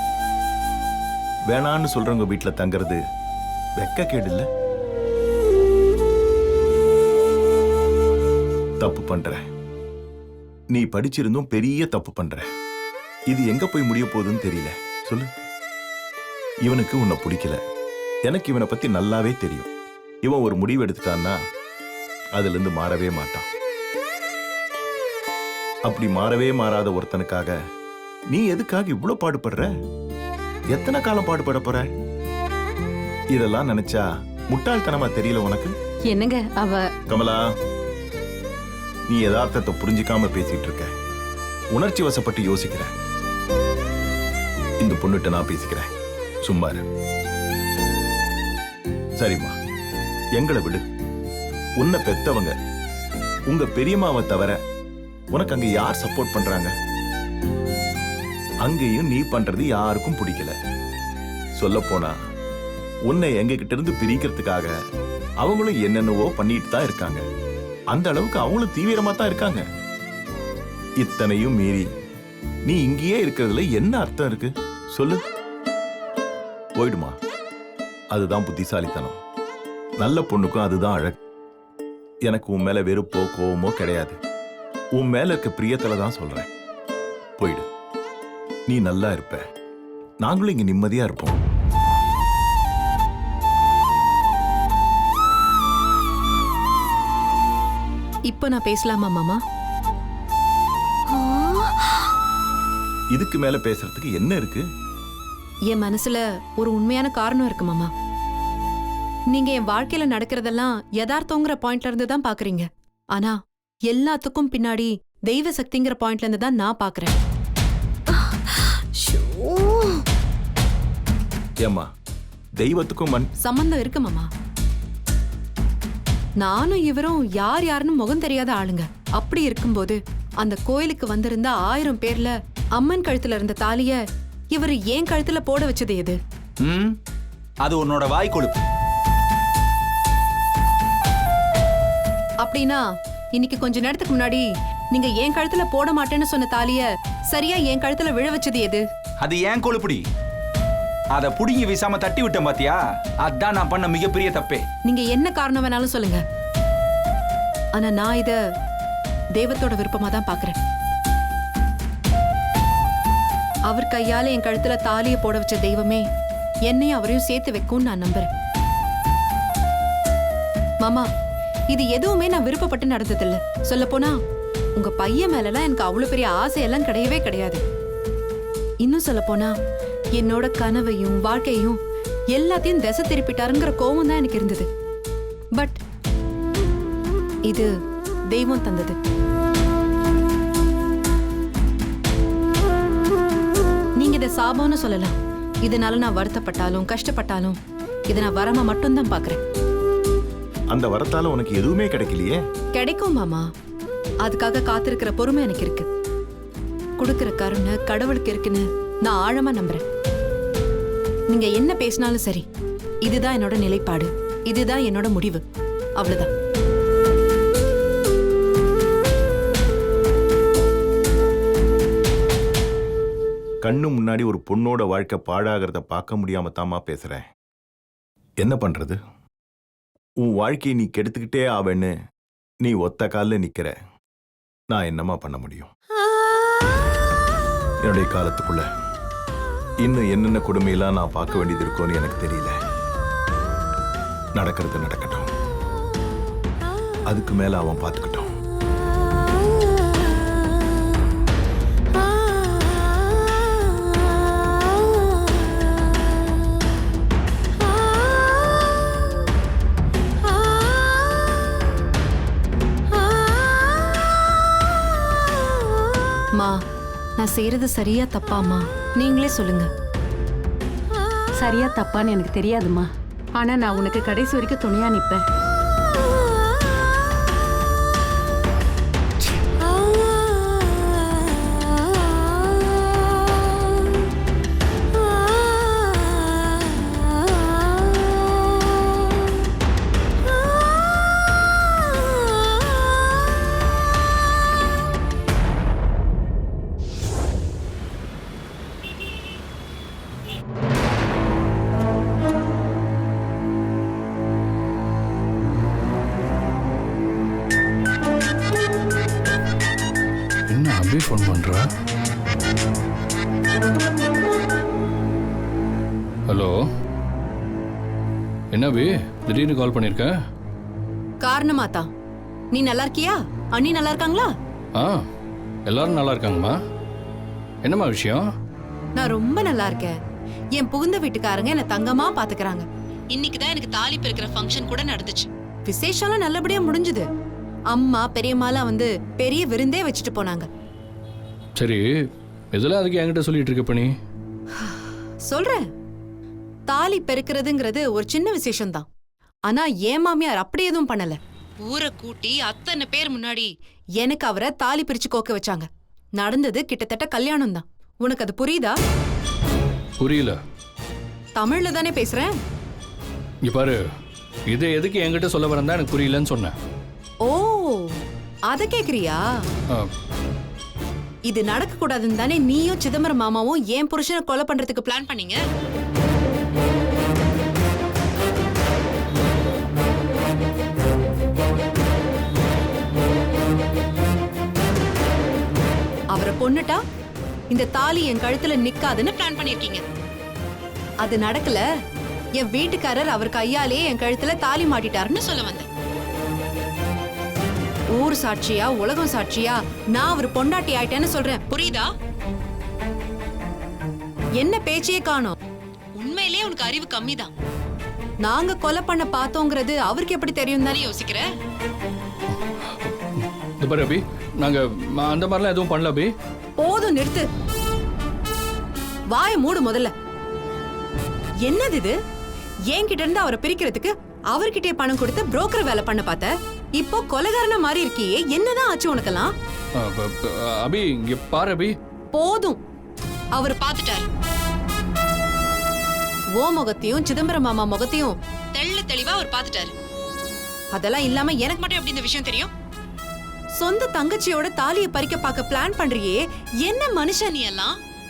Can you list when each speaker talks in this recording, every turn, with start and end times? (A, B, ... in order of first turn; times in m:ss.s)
0:01.5-0:03.0 A
0:03.8-0:04.4 A
0:08.8-0:09.4 A
0:10.7-0:12.4 A
0:13.3-0:15.3 A
0:16.6-0:17.6 A
0:18.3-0:19.7 A
0:20.2-0:21.4 A
0:22.3-0:23.5 A
0:25.8-0:27.6 A
0:28.3-0:29.7 A
0:30.7-0:31.8 A
0:33.3-0:35.7 A
0:36.1-0:36.9 B
0:37.1-0:37.4 A
0:39.1-0:40.9 A
0:41.7-0:42.9 A
0:44.8-0:45.9 A
0:46.4-0:46.8 A
0:49.2-0:49.5 A
0:50.3-0:50.8 A
0:51.8-0:52.5 A
0:53.5-0:54.6 A
0:55.3-0:56.7 A
0:58.6-1:00.5 A
1:01.6-1:02.1 A
1:03.1-1:04.7 A
1:05.4-1:07.2 A
1:07.9-1:09.6 A
1:11.0-1:11.8 A
1:12.6-1:15.2 A
1:16.8-1:17.1 A
1:18.1-1:19.2 A
1:20.0-1:21.2 A
1:22.2-1:24.2 A
1:24.9-1:26.5 A
1:27.4-1:27.7 A
1:28.7-1:29.4 A
1:30.2-1:31.4 A
1:38.3-1:39.4 B
1:41.2-1:41.7 B
1:43.1-1:44.6 A
1:45.7-1:47.9 B
1:49.3-1:53.4 B
1:53.9-1:57.2 B
2:02.6-2:03.3 A
2:03.4-2:04.3 B
2:06.4-2:14.0 B
2:14.5-2:16.2 B
2:16.6-2:16.9 C
2:17.6-2:18.6 C
2:22.4-2:22.8 B
2:23.3-2:28.8 B
2:29.2-2:30.0 C
2:31.1-2:34.6 C
2:34.8-2:36.2 B
2:37.7-2:38.4 B
2:39.3-2:40.6 B
2:43.7-2:46.0 B
2:46.6-2:48.3 B
2:50.8-2:51.1 B
2:51.7-2:54.2 B
2:54.7-2:57.6 B
2:58.8-2:59.5 B
3:00.1-3:01.8 B
3:02.3-3:04.7 B
3:07.5-3:07.7 B
3:08.3-3:09.0 B
3:14.0-3:19.4 B
3:20.7-3:22.4 A
3:22.7-3:23.4 B
3:24.2-3:25.9 B
3:27.0-3:29.8 B
3:31.3-3:32.4 B
3:33.0-3:35.4 B
3:36.0-3:36.3 B
3:43.6-3:47.2 A
3:48.4-3:49.0 A
3:50.2-3:51.9 A
3:52.6-3:53.7 A
3:54.7-3:55.7 A
3:57.8-3:58.7 A
3:59.8-4:02.5 A
4:04.3-4:05.3 A
4:07.1-4:08.3 A
4:26.4-4:26.6 B
4:27.2-4:29.7 B
4:31.3-4:35.2 D
5:10.5-5:11.7 E
5:16.3-5:16.5 E
5:18.5-5:20.1 E
5:21.2-5:21.9 B
5:22.5-5:24.3 B
5:24.8-5:25.1 E
5:25.6-5:26.6 E
5:27.6-5:28.3 E
5:29.0-5:30.0 B
5:30.5-5:37.1 B
5:37.7-5:40.5 B
5:41.6-5:41.8 E
5:42.5-5:43.9 E
5:44.6-5:45.6 B
5:46.7-5:48.9 B
5:49.5-5:58.8 B
6:00.0-6:00.4 E
6:01.4-6:02.3 B
6:03.4-6:03.8 E
6:04.5-6:06.5 E
6:07.2-6:09.2 B
6:11.3-6:15.4 B
6:26.1-6:26.8 B
6:27.5-6:29.8 B
6:31.0-6:31.6 B
6:32.4-6:35.7 B
6:37.9-6:41.9 B
6:44.4-6:45.4 B
6:46.0-6:47.3 B
6:48.2-6:51.3 B
6:52.3-6:56.1 E
6:56.6-6:57.3 B
6:59.1-6:59.9 B
7:01.4-7:01.9 B
7:02.7-7:09.3 B
7:09.8-7:11.8 E
7:12.1-7:12.6 B
7:13.3-7:14.0 B
7:16.4-7:19.7 B
7:20.7-7:22.5 B
7:23.6-7:27.8 B